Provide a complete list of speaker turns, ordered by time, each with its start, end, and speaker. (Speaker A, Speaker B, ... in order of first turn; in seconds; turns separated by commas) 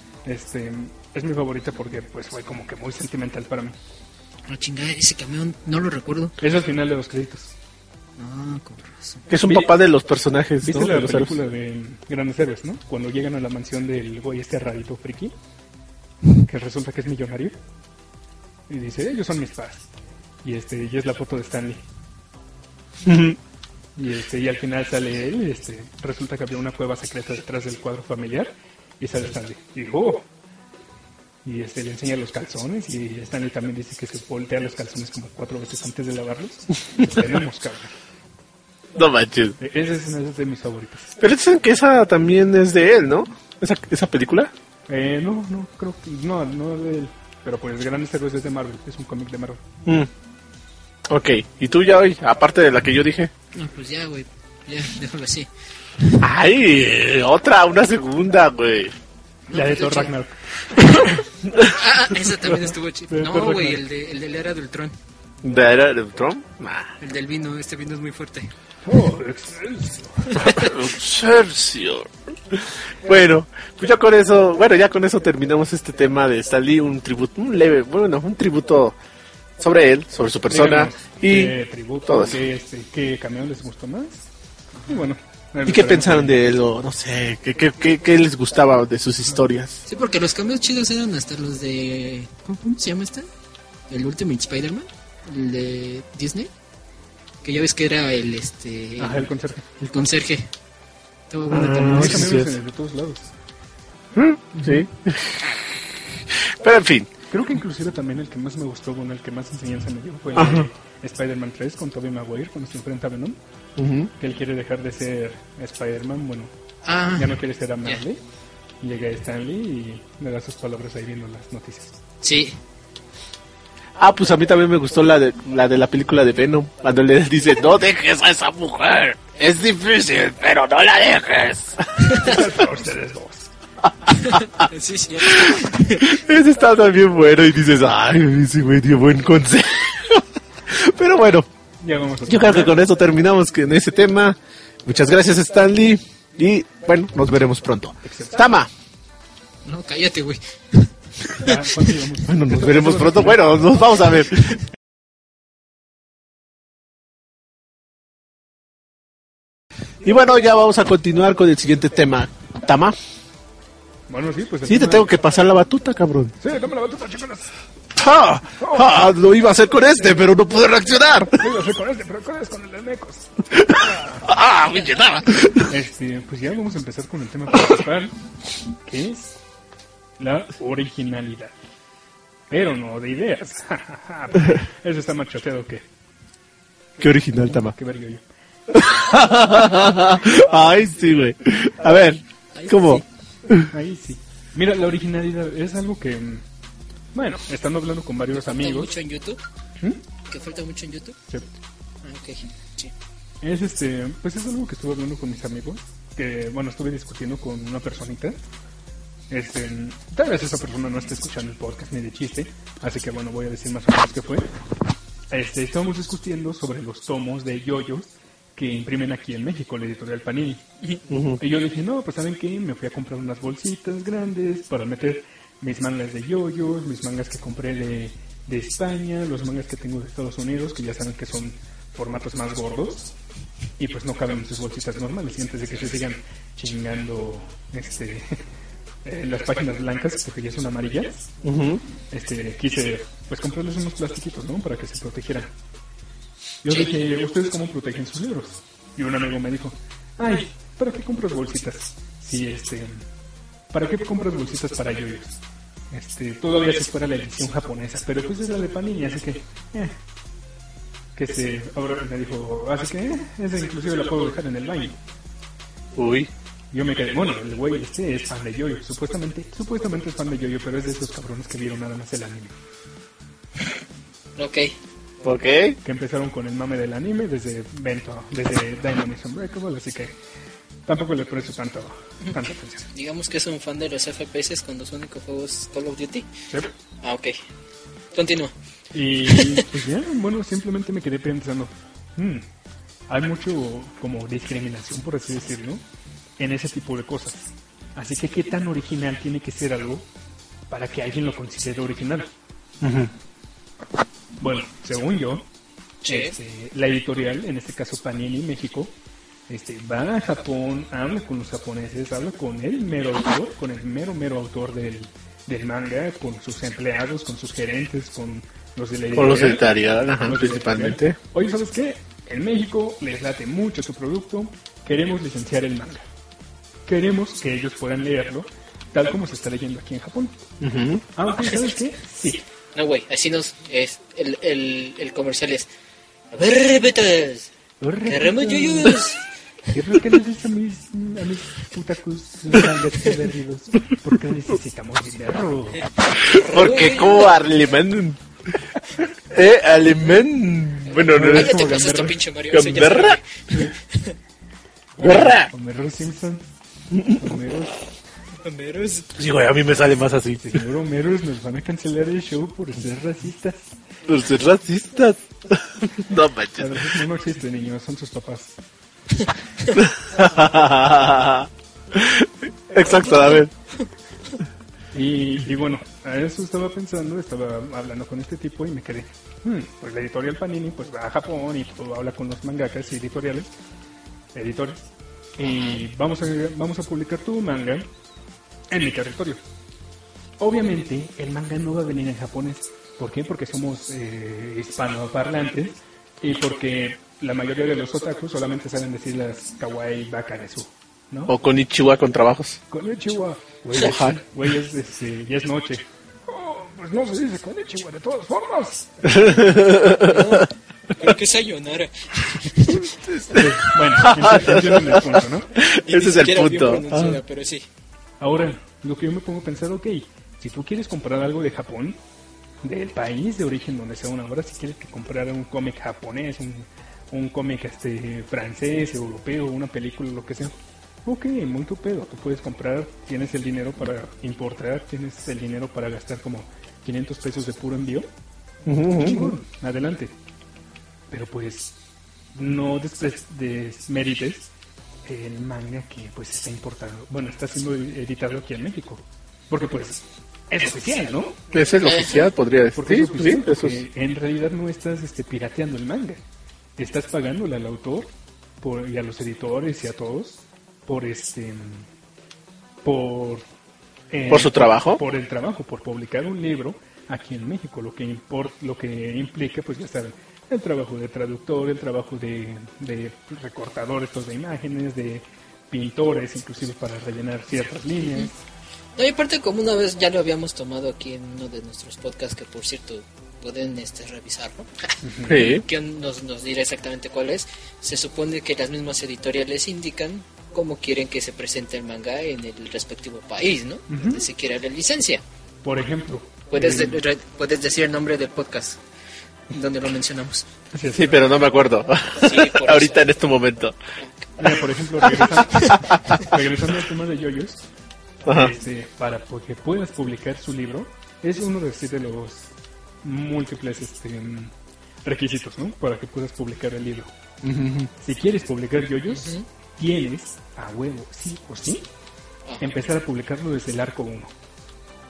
Speaker A: 0.2-3.8, Speaker B: 4.5-6.3, Speaker A: 6.4-7.5, Speaker B: 8.2-9.2, Speaker C: 9.3-11.4, Speaker A: 9.5-9.7, Speaker A: 10.6-15.3, Speaker A: 16.3-17.6, Speaker A: 18.7-19.9, Speaker A: 20.4-21.8, Speaker C: 23.0-23.4, Speaker A: 23.9-30.3, Speaker A: 31.4-37.9, Speaker C: 38.9-39.6, Speaker A: 39.6-41.2, Speaker C: 41.2-44.5, Speaker A: 44.9-49.6, Speaker C: 51.1-53.3, Speaker B: 53.5-55.5, Speaker C: 56.2-58.9, Speaker B: 59.5-60.1, Speaker A: 59.5-61.2, Speaker B: 60.7-61.0, Speaker C: 61.5-61.8, Speaker B: 61.6-65.0, Speaker A: 62.4-63.8, Speaker C: 65.4-66.9, Speaker B: 67.0-68.5, Speaker A: 68.8-70.5, Speaker B: 70.3-70.8, Speaker C: 70.4-79.0, Speaker C: 79.6-81.5, Speaker A: 80.5-84.3, Speaker C: 82.1-82.4, Speaker B: 84.7-85.1, Speaker A: 84.9-86.4, Speaker C: 85.6-89.8, Speaker B: 89.9-93.3, Speaker B: 93.9-96.5, Speaker B: 97.4-100.5, Speaker A: 99.0-99.7, Speaker B: 101.3-102.3, Speaker C: 101.5-102.5, Speaker A: 101.7-103.3, Speaker C: 104.1-105.5, Speaker A: 104.6-104.8, Speaker C: 106.3-107.1, Speaker A: 107.3-113.4, Speaker C: 110.3-110.7, Speaker C: 113.8-114.1, Speaker A: 114.2-116.5, Speaker B: 116.8-118.0, Speaker A: 117.1-118.2, Speaker A: 118.8-122.0, Speaker B: 122.2-122.6, Speaker C: 124.0-132.1, Speaker B: 132.0-132.4, Speaker A: 132.1-133.5, Speaker B: 134.1-136.1, Speaker C: 135.2-141.5, Speaker A: 141.8-142.8, Speaker C: 142.3-148.7, Speaker A: 148.0-148.4, Speaker B: 149.6-151.9, Speaker A: 151.3-153.7, Speaker C: 152.2-154.6, Speaker C: 160.0-162.9, Speaker A: 164.1-165.1, Speaker C: 164.7-166.3, Speaker A: 166.4-167.5, Speaker C: 167.9-171.4, Speaker A: 168.5-169.1, Speaker A: 171.3-174.3, Speaker C: 173.7-175.7, Speaker A: 175.6-178.2, Speaker A: 178.8-179.4, Speaker A: 180.2-181.5, Speaker A: 182.5-185.8, Speaker C: 187.0-187.7, Speaker A: 187.5-188.2, Speaker C: 188.7-193.7, Speaker B: 192.5-193.0, Speaker A: 193.7-196.4, Speaker A: 197.1-198.9, Speaker B: 198.3-199.4, Speaker B: 200.2-201.2, Speaker B: 202.0-202.9, Speaker A: 203.4-208.4, Speaker A: 209.3-214.5, Speaker A: 215.3-220.6, Speaker C: 221.1-221.4, Speaker A: 221.4-233.1, Speaker A: 233.8-238.4, Speaker A: 239.0-241.3, Speaker C: 241.4-241.8, Speaker A: 242.1-245.5, Speaker A: 246.6-253.1, Speaker A: 253.7-259.9, Speaker A: 261.1-265.0, Speaker C: 265.9-266.3, Speaker A: 266.7-272.5, Speaker B: 274.4-274.7, Speaker C: 275.2-275.8, Speaker A: 275.8-280.1, Speaker A: 280.9-282.9, Speaker B: 282.9-286.3, Speaker B: 287.0-287.4, Speaker B: 288.1-288.5, Speaker A: 288.9-292.4, Speaker B: 289.3-289.6, Speaker A: 293.1-295.8, Speaker A: 296.4-300.1, Speaker A: 300.7-302.3, Speaker C: 302.8-303.1, Speaker A: 304.4-305.5, Speaker B: 306.0-306.3, Speaker A: 306.1-308.9, Speaker A: 309.5-326.1, Speaker C: 319.1-321.1, Speaker A: 326.9-330.4, Speaker C: 330.6-331.0, Speaker A: 331.1-332.4, Speaker B: 332.7-335.7, Speaker B: 336.3-337.5, Speaker A: 337.8-339.0, Speaker B: 338.0-339.2, Speaker A: 339.7-345.9, Speaker C: 346.1-348.2, Speaker B: 346.3-347.4, Speaker C: 349.3-351.7, Speaker B: 351.0-354.1, Speaker A: 351.0-352.2, Speaker C: 352.5-353.2, Speaker A: 355.0-356.4, Speaker C: 355.0-355.5, Speaker C: 356.9-357.2, Speaker A: 357.1-357.8, Speaker B: 358.4-359.1, Speaker C: 359.1-360.6, Speaker A: 360.4-363.7, Speaker C: 364.1-366.9, Speaker A: 366.6-368.6, Speaker C: 369.8-373.5, Speaker B: 373.0-373.4, Speaker A: 374.9-383.5, Speaker A: 384.3-387.9, Speaker B: 385.5-385.8, Speaker A: 388.7-389.4, Speaker A: 390.4-401.3, Speaker C: 401.3-402.6, Speaker A: 402.7-409.3, Speaker C: 403.8-404.2, Speaker C: 409.0-410.4, Speaker B: 409.9-412.9, Speaker C: 412.8-417.2, Speaker A: 413.3-415.5, Speaker B: 415.7-417.6, Speaker A: 418.2-422.0, Speaker A: 422.6-438.1, Speaker C: 438.6-439.4, Speaker A: 439.0-440.1, Speaker A: 441.1-441.8, Speaker A: 442.3-444.5, Speaker A: 445.0-451.4, Speaker C: 451.5-453.8, Speaker B: 451.8-452.2, Speaker A: 452.7-456.2, Speaker A: 456.8-461.9, Speaker A: 462.8-463.4, Speaker A: 464.1-478.3, Speaker C: 464.3-465.0, Speaker B: 478.9-484.7, Speaker A: 485.0-485.5, Speaker C: 485.3-485.6, Speaker B: 485.3-495.2, Speaker A: 493.9-494.2, Speaker A: 495.6-497.0, Speaker B: 496.5-498.8, Speaker B: 499.5-500.5, Speaker A: 500.7-501.2, Speaker C: 500.9-503.8, Speaker B: 502.2-503.0, Speaker B: 504.0-504.3, Speaker A: 504.4-507.6, Speaker C: 505.2-505.7, Speaker C: 508.2-508.5, Speaker A: 508.3-517.1, Speaker C: 517.4-517.9, Speaker A: 518.0-521.9, Speaker B: 519.1-519.5, Speaker A: 522.6-524.3